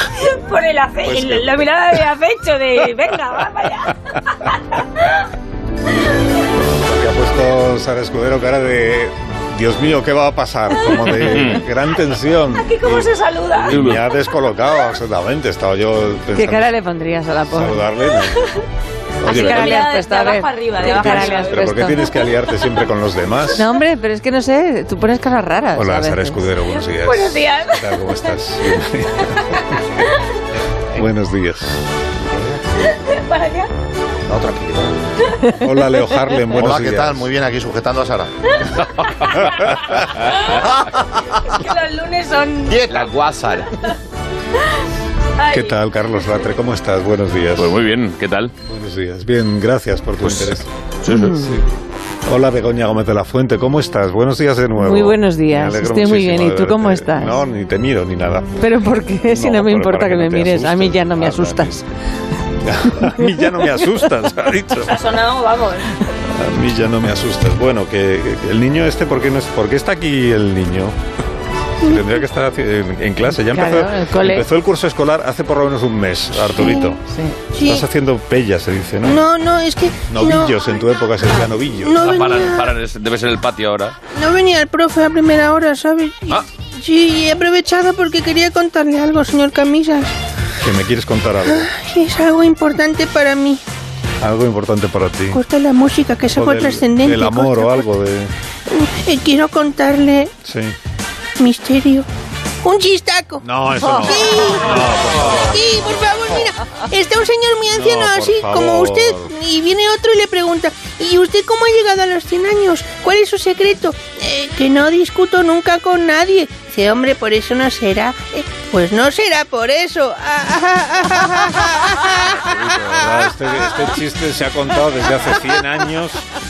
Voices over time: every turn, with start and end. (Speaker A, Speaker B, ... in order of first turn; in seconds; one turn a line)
Speaker A: 0.1-4.6
Speaker B: 1.0-1.7
Speaker B: 6.6-16.7
Speaker C: 11.1-11.6
Speaker A: 12.5-13.7
Speaker C: 13.7-14.0
Speaker D: 16.4-17.8
Speaker B: 17.5-18.4
Speaker B: 19.2-19.8
Speaker D: 19.2-22.0
Speaker A: 19.2-21.7
Speaker B: 20.8-23.7
Speaker D: 23.6-26.4
Speaker B: 25.7-29.7
Speaker A: 26.9-28.0
Speaker B: 30.9-31.8
Speaker A: 32.9-33.7
Speaker E: 34.3-34.9
Speaker B: 35.6-37.3
Speaker E: 36.5-38.3
Speaker A: 41.4-42.9
Speaker E: 42.6-43.1
Speaker C: 42.9-43.7
Speaker A: 45.4-45.7
Speaker B: 45.5-47.8
Speaker C: 47.6-48.5
Speaker B: 48.6-50.7
Speaker C: 50.2-51.4
Speaker D: 51.1-51.5
Speaker B: 51.4-51.6
Speaker B: 52.2-58.6
Speaker D: 54.8-57.4
Speaker D: 58.6-61.9
Speaker B: 59.3-61.8
Speaker B: 62.6-65.0
Speaker D: 63.0-63.7
Speaker A: 64.9-65.9
Speaker B: 66.2-71.0
Speaker B: 71.8-77.0
Speaker D: 73.5-74.5
Speaker F: 76.6-76.9
Speaker D: 76.7-77.3
Speaker F: 77.5-77.8
Speaker B: 77.6-79.2
Speaker F: 79.0-80.6
Speaker B: 80.1-82.1
Speaker F: 81.8-82.7
Speaker C: 82.0-83.9
Speaker F: 84.1-90.1
Speaker B: 90.6-91.7
Speaker F: 91.5-93.6
Speaker B: 94.2-95.4
Speaker F: 95.3-97.9
Speaker B: 96.3-98.3
Speaker F: 98.7-100.3
Speaker B: 100.4-100.8
Speaker F: 101.4-102.1
Speaker F: 102.6-104.8
Speaker B: 103.4-105.7
Speaker F: 105.4-123.0
Speaker B: 107.7-109.3
Speaker C: 122.4-122.9
Speaker B: 122.7-126.3